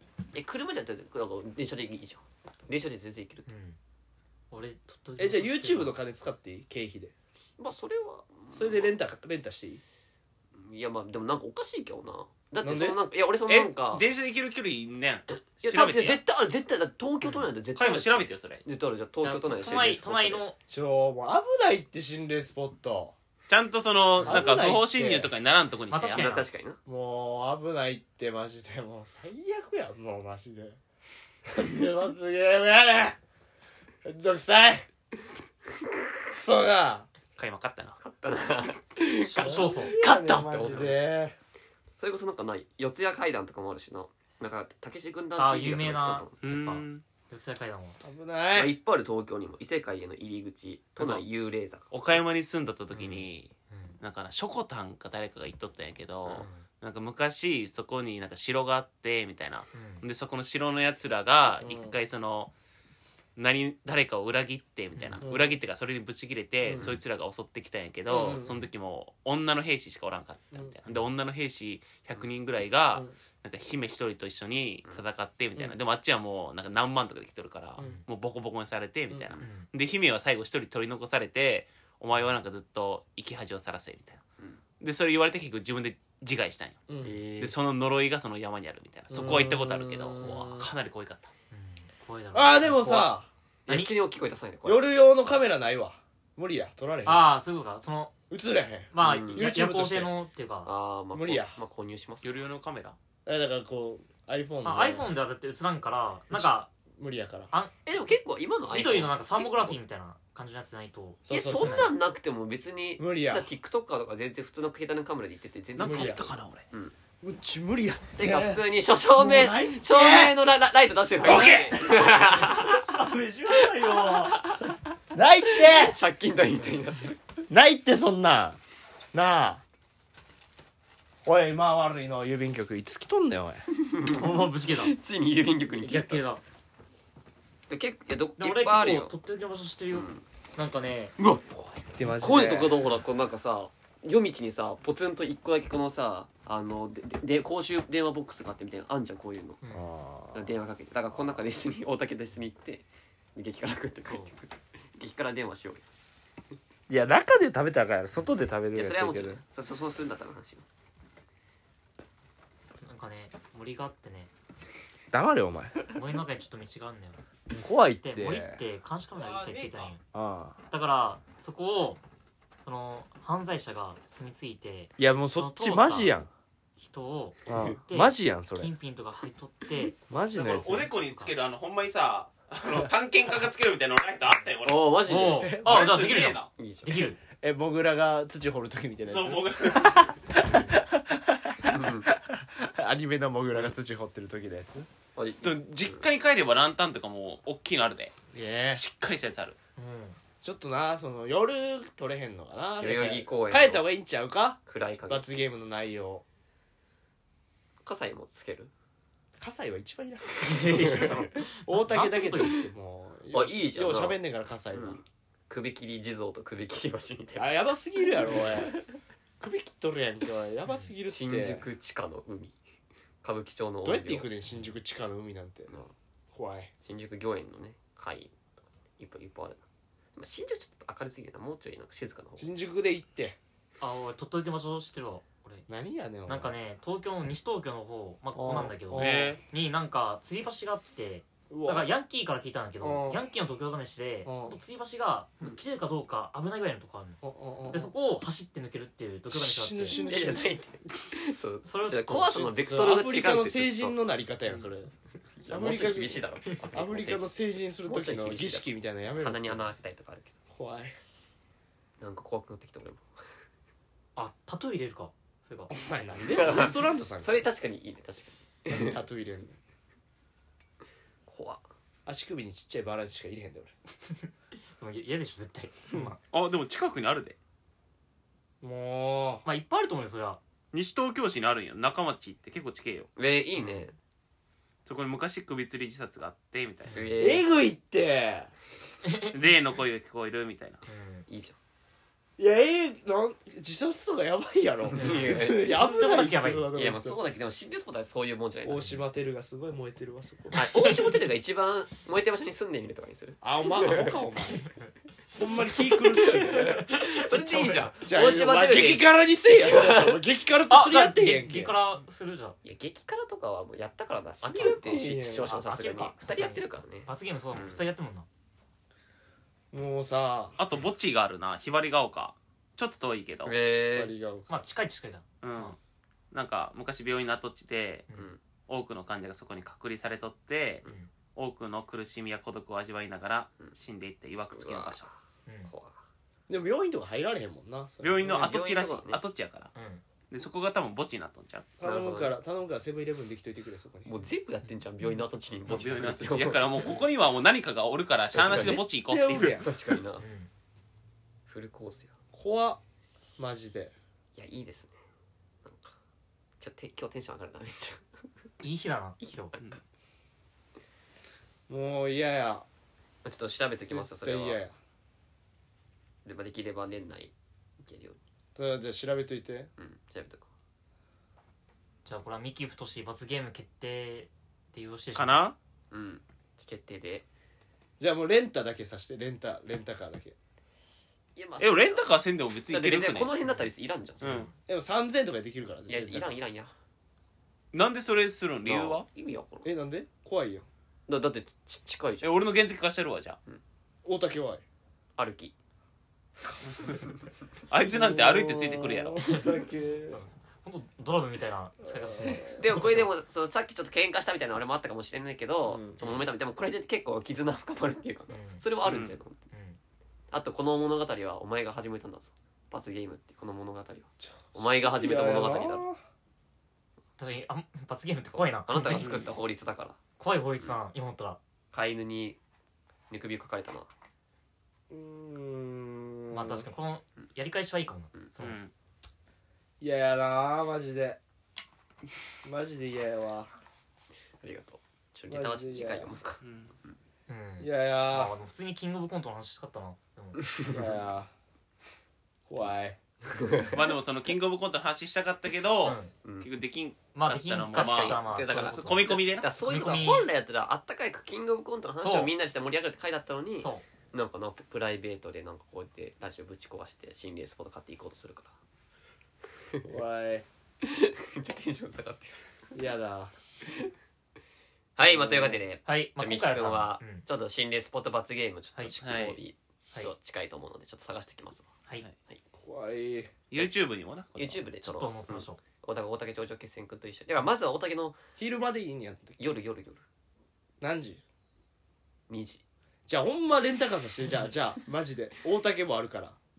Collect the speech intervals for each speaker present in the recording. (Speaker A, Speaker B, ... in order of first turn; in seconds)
Speaker A: 0.3-3.5, 7.6-9.0, 10.5-14.0, 15.6-20.4, 26.0-26.8, 38.0-41.0, 42.0-46.4, 48.5-51.9, 87.0-87.5, 90.2-90.5, 93.7-94.9, 99.0-99.5, 100.6-102.4, 107.8-109.8, 111.3-116.9, 118.2-124.8, 125.5-127.2, 133.7-136.2, 137.7-139.1, 139.9-140.2, 141.2-141.4, 142.1-149.6, 150.3-155.9, 158.7-160.7, 169.2-169.9, 184.6-185.6, 186.5-187.0, 191.6-192.1, 195.2-196.0, 202.8-203.9, 204.7-205.3, 207.8-208.7, 210.5-211.2, 213.3-214.2, 214.7-217.5, 221.1-222.6, 223.2-224.3, 225.7-225.9, 226.8-229.6, 230.2-232.5, 250.0-254.7, 255.3-257.3, 257.9-260.4, 262.0-263.1, 266.2-268.9, 271.3-271.6, 283.1-283.9, 286.9-287.5, 291.3-291.6, 294.9-295.7, 296.7-299.0, 300.5-304.2, 306.2-310.2, 312.6-317.8, 323.4-324.1, 328.1-328.4, 334.5-336.0, 338.2-339.2, 341.8-342.3, 344.0-347.0, 348.3-348.8, 349.6-350.2, 351.5-352.1, 354.3-354.9, 355.6-355.9, 356.6-358.2, 363.2-364.6, 366.2-368.2, 369.8-370.5, 375.9-377.3, 381.4-382.1, 382.7-384.5, 385.9-386.7, 388.6-389.7, 391.1-392.4, 395.2-395.5, 402.5-409.4, 410.3-415.8, 418.7-420.0, 421.7-422.4, 423.1-423.9, 434.4-437.0, 440.4-440.8, 443.2-443.8, 447.7-458.5, 460.8-462.5, 464.9-471.7, 474.4-478.2, 479.4-480.0, 482.3-482.6
Speaker B: 3.5-3.8, 4.5-5.9, 19.2-20.6, 24.1-24.6, 25.9-26.5, 39.2-40.0, 45.4-48.0, 52.9-54.0, 56.3-56.6, 59.7-60.0, 64.9-65.3, 77.8-78.0, 79.4-79.7, 91.5-93.1, 93.7-93.9, 97.0-98.1, 98.9-100.7, 104.6-106.7, 108.7-111.9, 134.1-134.9, 135.8-136.4, 138.4-141.1, 154.0-154.3, 162.8-164.3, 165.9-167.2, 168.0-170.0, 170.7-172.0, 172.6-176.1, 176.8-180.0, 180.7-181.3, 184.2-184.5, 185.0-187.2, 190.4-190.8, 199.8-200.2, 210.4-212.7, 233.8-235.6, 236.2-250.2, 251.6-252.6, 264.1-265.7, 274.8-276.2, 279.4-280.4, 286.9-287.2, 289.0-289.3, 290.9-291.2, 295.0-296.7, 306.2-307.9, 310.7-312.6, 314.6-318.3, 324.5-325.2, 330.8-331.1, 335.4-335.7, 339.7-340.0, 350.2-350.5, 358.6-359.5, 372.0-375.4, 399.2-399.6, 400.1-403.1, 408.3-408.6, 409.5-409.8, 417.2-419.2, 420.2-421.4, 426.3-428.6, 437.3-440.6, 445.8-446.1, 447.1-450.3, 452.0-452.3, 453.6-453.9, 465.9-467.2, 474.8-475.6
Speaker C: 5.2-7.1, 8.5-9.8, 12.6-13.0, 20.7-23.1, 24.2-25.3, 26.9-30.8, 31.4-33.2, 34.0-34.8, 36.3-37.1, 39.4-41.3, 48.0-48.7, 61.6-61.9, 65.2-65.5, 66.6-67.0, 68.1-68.6, 86.9-87.2, 89.1-90.7, 92.3-93.3, 94.6-97.3, 98.3-100.1, 101.1-101.6, 103.2-105.1, 106.3-107.5, 111.2-111.9, 113.0-113.5, 115.8-116.2, 117.2-118.6, 119.2-120.3, 121.2-124.5, 125.1-126.0, 127.5-128.6, 129.1-129.6, 131.2-133.6, 141.6-142.8, 149.7-150.5, 156.9-159.4, 165.1-165.8, 167.5-168.6, 170.1-170.6, 175.0-176.3, 177.5-178.7, 180.1-180.9, 185.4-185.9, 187.4-194.9, 198.3-198.8, 200.4-206.2, 209.4-215.0, 217.3-218.8, 219.4-221.6, 223.8-225.7, 226.3-226.7, 232.4-233.4, 235.7-236.5, 238.3-239.3, 241.5-241.9, 242.8-243.3, 244.2-244.6, 247.2-247.9, 249.3-250.5, 252.6-254.9, 255.4-259.6, 260.5-260.9, 265.7-267.4, 268.7-269.6, 272.1-273.7, 278.6-279.4, 287.2-288.5, 292.4-297.2, 298.6-300.6, 303.4-304.6, 305.3-306.8, 308.1-311.7, 314.4-315.5, 319.7-320.6, 323.9-324.6, 336.5-338.5, 341.8-344.1, 349.1-349.7, 352.3-352.8, 353.4-353.9, 361.7-362.6, 363.9-364.7, 368.6-369.7, 378.0-380.3, 384.7-386.3, 389.6-390.7, 394.0-394.6, 397.9-400.2, 401.9-402.6, 405.6-406.0, 414.5-416.0, 424.9-426.7, 429.8-431.2, 432.4-433.5, 435.3-436.1, 437.6-438.3, 440.7-441.3, 442.5-443.0, 459.9-460.4, 462.7-463.3, 465.0-465.6, 472.5-473.3, 478.4-479.4, 480.8-481.2, 483.1-486.4
Speaker D: 13.5-16.2, 17.7-18.6, 23.5-26.3, 37.4-38.0, 46.4-47.0, 51.9-62.5, 63.4-84.2, 84.8-86.8, 87.4-91.3, 102.2-103.0, 115.8-116.6, 121.2-122.0, 180.3-186.5, 189.1-190.2, 195.4-198.1, 198.8-199.6, 238.9-239.4, 276.3-277.4, 280.7-283.1, 284.9-287.0, 289.3-290.8, 320.6-323.5, 325.4-325.8, 326.3-328.1, 328.7-330.8, 331.3-335.1, 338.0-339.7, 340.3-341.7, 345.6-349.6, 375.1-375.6, 381.6-383.3, 384.2-384.5, 387.7-389.1, 392.2-393.4, 397.7-399.2, 408.8-409.2, 418.9-419.2, 428.4-428.7, 436.4-436.7, 443.7-449.5, 469.0-469.4, 473.5-474.6